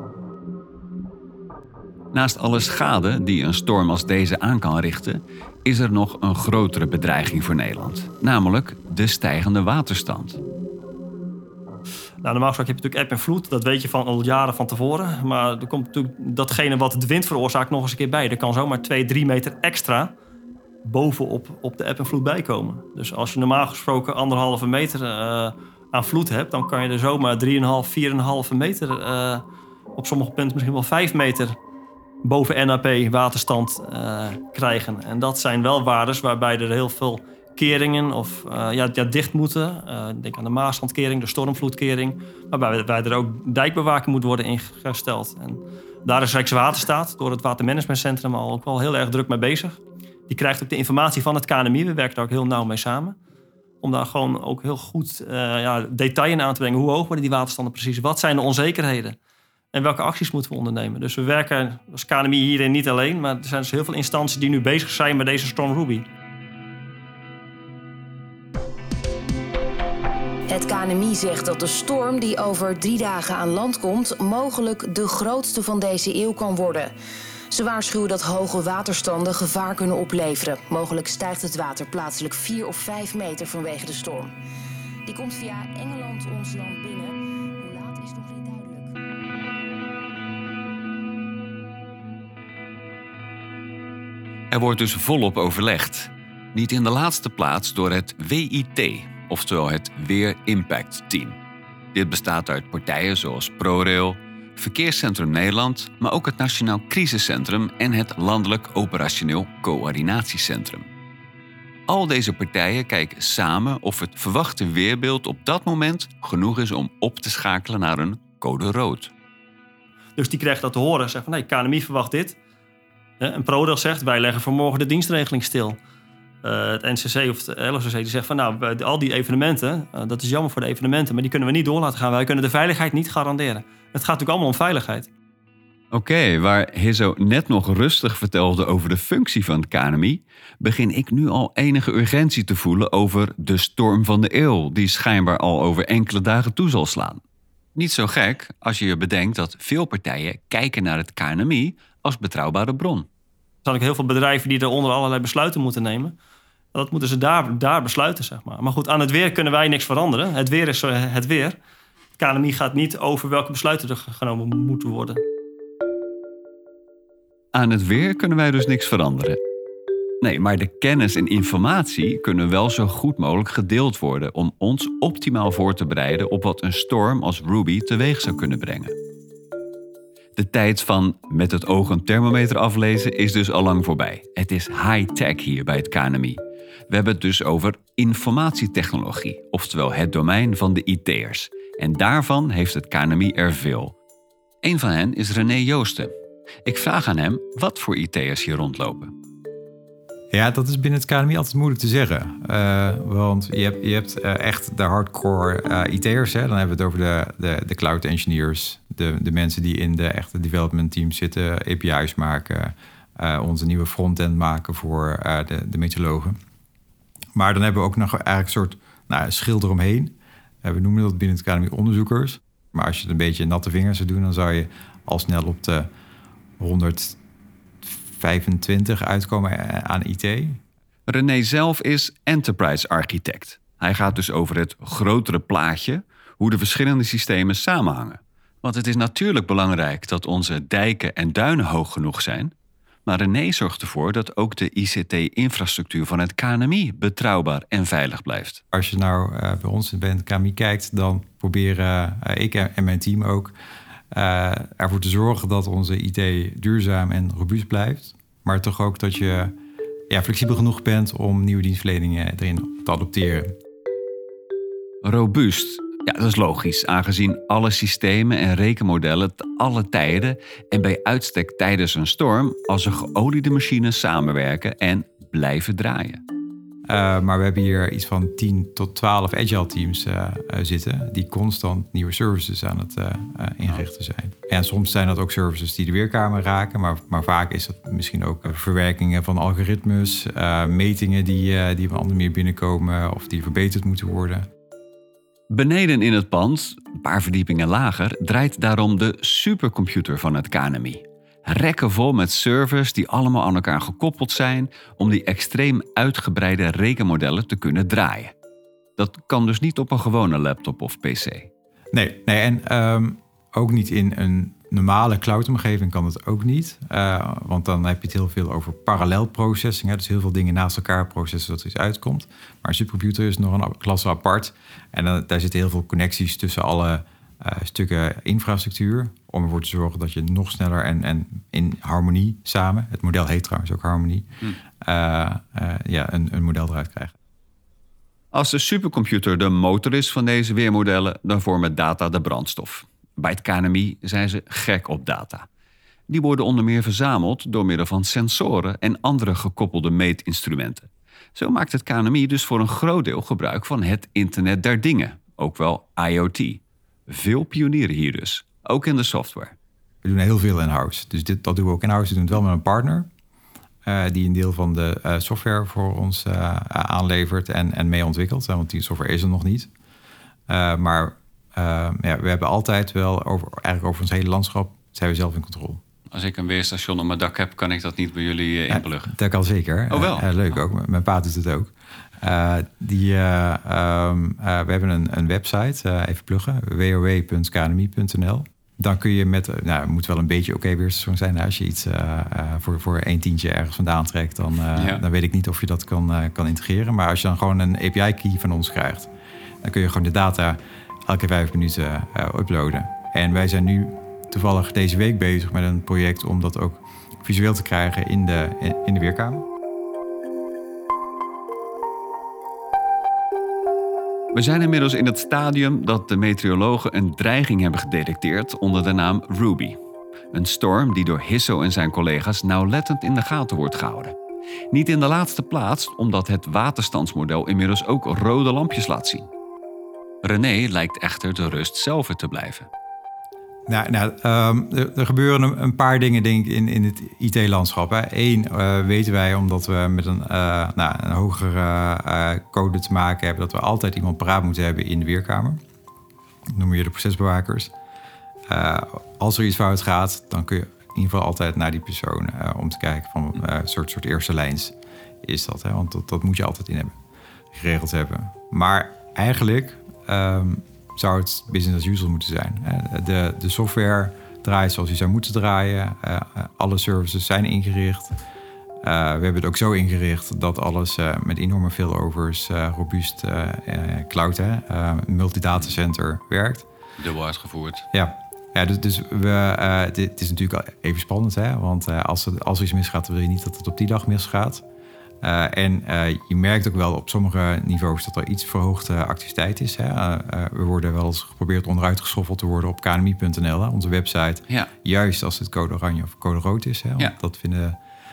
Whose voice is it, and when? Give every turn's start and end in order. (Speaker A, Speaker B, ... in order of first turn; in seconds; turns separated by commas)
Speaker A: 2.1-10.4, Speaker B: 12.2-20.1, Speaker B: 20.8-29.4, Speaker B: 29.9-31.6, Speaker B: 32.2-53.2, Speaker B: 53.8-59.2, Speaker B: 59.7-66.1, Speaker C: 70.5-76.9, Speaker C: 77.5-84.3, Speaker C: 85.0-89.0, Speaker A: 94.5-101.4, Speaker A: 101.9-110.9, Speaker A: 111.9-119.1, Speaker B: 120.2-122.4, Speaker B: 123.2-125.8, Speaker B: 126.4-135.1, Speaker A: 135.9-147.2, Speaker A: 147.8-153.1, Speaker B: 153.6-156.2, Speaker B: 156.7-161.6, Speaker B: 162.2-165.2, Speaker A: 167.5-169.4, Speaker A: 170.2-178.9, Speaker A: 180.3-193.9, Speaker A: 194.6-196.1, Speaker A: 196.6-199.1, Speaker D: 200.3-216.4, Speaker D: 217.3-225.9, Speaker D: 226.6-227.2, Speaker D: 227.8-230.6, Speaker A: 231.1-242.5, Speaker A: 243.1-248.6, Speaker D: 248.7-253.5, Speaker D: 254.1-259.5, Speaker D: 260.1-263.5, Speaker A: 265.0-276.2, Speaker D: 276.9-294.4, Speaker A: 295.5-308.3, Speaker A: 309.0-311.5, Speaker D: 311.9-334.2, Speaker D: 334.8-337.1, Speaker A: 338.3-345.4, Speaker A: 346.1-359.5, Speaker D: 360.0-363.1, Speaker D: 363.9-369.7, Speaker D: 370.5-375.8, Speaker A: 376.1-379.1, Speaker D: 378.7-399.1, Speaker A: 379.9-380.3, Speaker A: 394.7-395.0, Speaker D: 399.6-409.4, Speaker A: 414.3-419.8, Speaker A: 420.3-424.1, Speaker A: 424.7-429.3, Speaker A: 430.2-432.7, Speaker D: 433.7-445.6, Speaker D: 446.6-447.7, Speaker D: 448.5-456.9, Speaker D: 457.5-468.1, Speaker D: 468.8-476.6, Speaker A: 477.0-477.8, Speaker D: 477.9-484.6, Speaker D: 485.2-497.8